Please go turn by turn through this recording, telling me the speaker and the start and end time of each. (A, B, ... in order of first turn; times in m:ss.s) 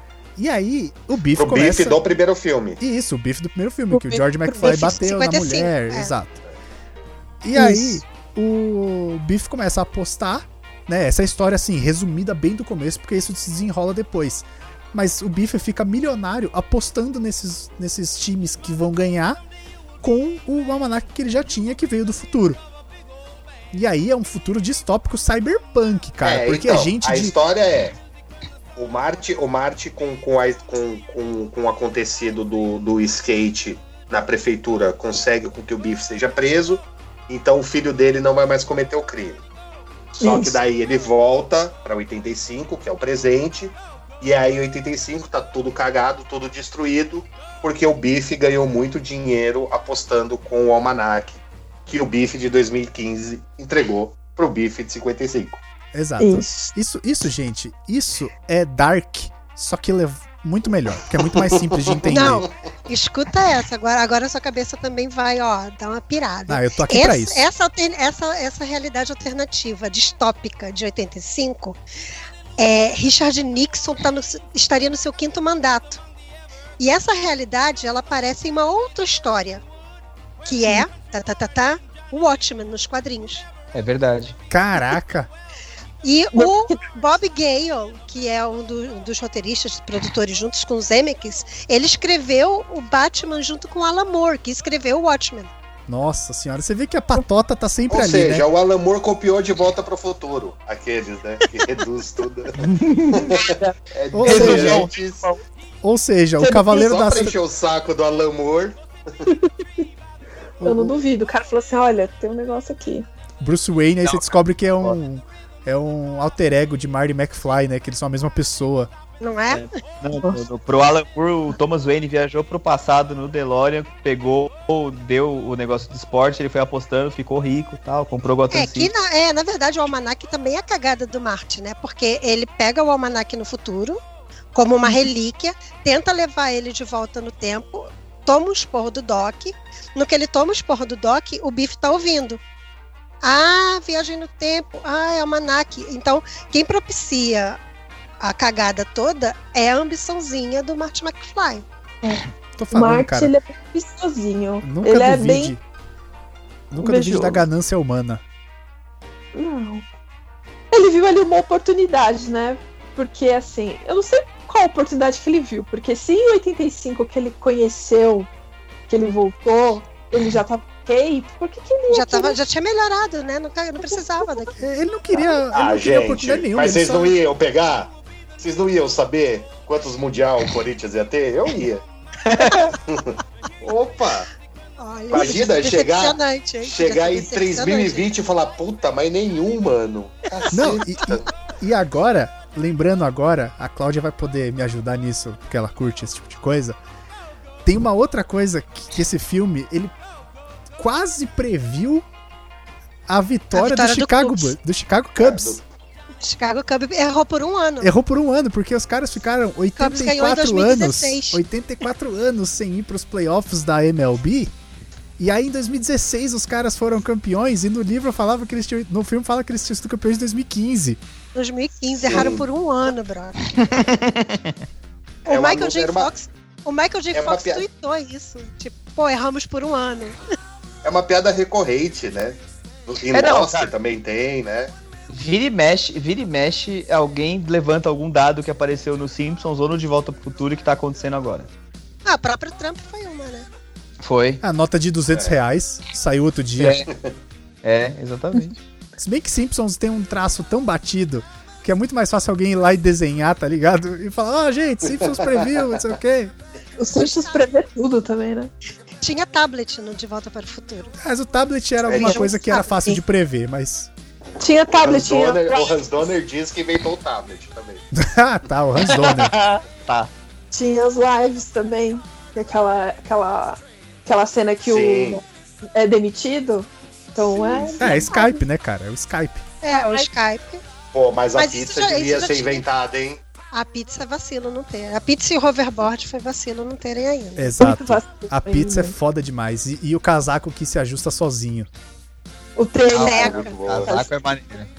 0:00.4-0:02.0 A
0:01.3-0:02.8 B
0:02.8-0:06.4 A
0:03.9-0:05.0 C
0:04.6-0:06.1 D
0:07.4-0:19.4 A
0:07.5-0:08.0 C
0:20.0-0:22.6 A
0:23.7-0:27.3 A
0:26.2-0:28.0 B
0:28.8-0:39.4 B
0:40.1-0:55.6 B
0:40.2-0:40.6 C
0:55.9-1:02.5 A
0:56.2-0:56.7 C
1:01.3-1:02.5 B
1:02.1-1:11.8 D
1:06.5-1:07.4 A
1:12.6-1:16.0 D
1:16.8-1:19.6 D
1:20.4-1:23.5 D
1:23.7-1:24.4 E
1:24.5-1:25.3 A
1:26.0-1:35.5 D
1:26.3-1:26.9 C
1:35.9-1:38.5 A
1:37.9-1:45.2 B
1:42.6-1:43.6 E
1:44.1-1:44.9 A
1:44.2-1:45.4 E
1:45.8-1:47.4 A
1:46.4-1:46.9 C
1:46.6-1:48.8 B
1:49.2-1:49.8 C
1:50.6-1:53.1 C
1:50.6-1:50.9 A
1:53.4-1:58.9 A
1:59.2-1:59.8 D
1:59.5-2:08.9 E
2:08.5-2:14.0 D
2:14.5-2:22.4 D
2:23.2-2:27.6 D
2:28.2-2:31.6 D
2:32.0-2:35.5 C
2:32.6-2:33.3 A
2:34.6-2:35.6 A
2:36.7-2:38.2 A
2:36.8-2:37.4 C
2:39.3-2:39.8 C
2:40.7-2:48.3 C
2:48.9-2:52.4 C
2:51.9-2:54.6 D
2:53.8-2:54.5 C
2:54.6-2:57.1 A
2:55.5-3:01.8 B
3:02.2-3:02.7 E
3:02.4-3:02.7 D
3:02.8-3:04.3 B
3:04.8-3:08.1 D
3:05.1-3:11.3 B
3:10.5-3:16.8 A
3:17.6-3:19.9 A
3:20.8-3:22.0 A
3:23.1-3:25.6 A
3:23.5-3:24.5 D
3:25.2-3:25.6 B
3:26.2-3:27.9 D
3:27.8-3:34.5 A
3:29.8-3:31.4 D
3:35.2-3:41.0 A
3:41.3-3:43.6 D
3:42.0-3:42.5 B
3:43.6-3:44.6 E
3:45.2-3:50.2 D
3:45.3-3:46.1 B
3:47.1-3:47.6 B
3:50.8-3:54.7 B
3:53.1-3:53.7 E
3:55.1-4:01.5 E
4:02.0-4:03.5 D
4:04.0-4:04.4 E
4:04.4-4:06.8 A
4:05.1-4:05.4 B
4:06.6-4:06.9 E
4:07.6-4:08.6 E
4:09.0-4:16.3 A
4:14.8-4:15.8 B
4:16.8-4:18.5 C
4:17.0-4:17.4 D
4:19.0-4:20.9 D
4:21.0-4:23.9 A
4:21.8-4:22.3 B
4:22.0-4:23.0 C
4:24.4-4:25.7 C
4:24.8-4:27.8 B
4:27.9-4:29.3 A
4:28.8-4:30.1 E
4:30.5-4:38.4 C
4:34.6-4:35.2 B
4:37.2-4:38.0 B
4:37.8-4:39.4 A
4:39.6-4:40.6 D
4:39.7-4:40.1 C
4:40.9-4:43.2 B
4:41.4-4:42.6 D
4:43.5-4:47.6 D
4:47.4-4:51.7 A
4:47.6-4:48.9 C
4:52.6-4:54.1 C
4:52.9-4:54.7 E
4:53.0-4:53.6 D
4:53.0-4:54.0 B